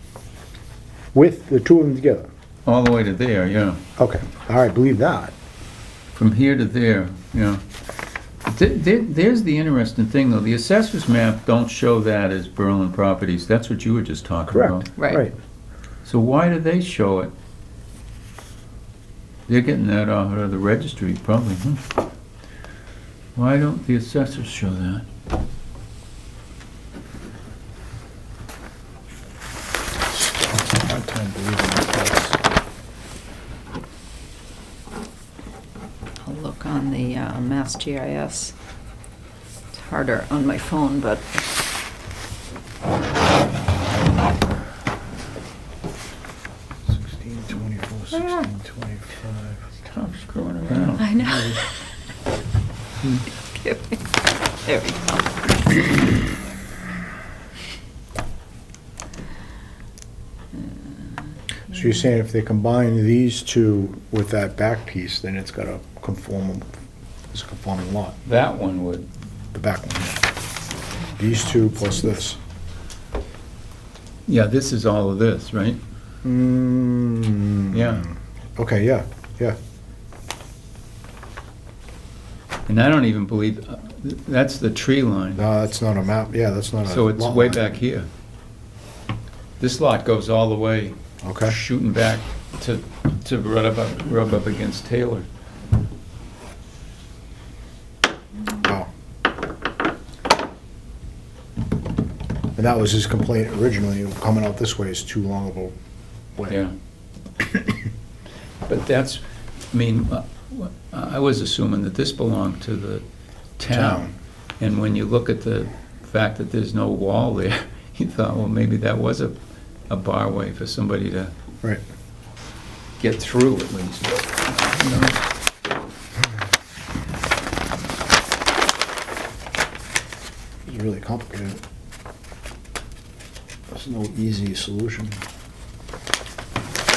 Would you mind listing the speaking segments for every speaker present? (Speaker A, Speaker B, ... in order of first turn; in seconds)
Speaker A: 1.1-2.3, 4.0-5.3, 14.5-15.3, 30.1-32.4, 46.9-49.7, 51.2-51.6, 61.7-66.7, 67.3-68.2, 69.5-70.2, 71.2-72.4, 76.2-79.6, 85.4-87.7, 91.2-91.6, 98.6-98.9, 102.6-105.7, 113.7-114.1, 130.7-131.6, 133.7-135.2
Speaker B: 2.6-3.8, 6.2-7.6, 8.4-14.9, 16.1-17.3, 19.5-21.9, 23.4-25.1, 49.8-51.1, 68.2-69.1, 74.3-75.8, 77.7-78.1, 82.7-85.4, 86.9-88.1, 89.6-95.3, 106.5-106.7, 108.7-113.0, 113.6-119.4, 119.9-121.3, 123.0-125.2
Speaker C: 15.0-15.3, 36.2-38.5, 39.7-41.5, 48.1-48.5, 51.0-51.7, 53.5-54.0, 54.6-56.2, 71.1-72.2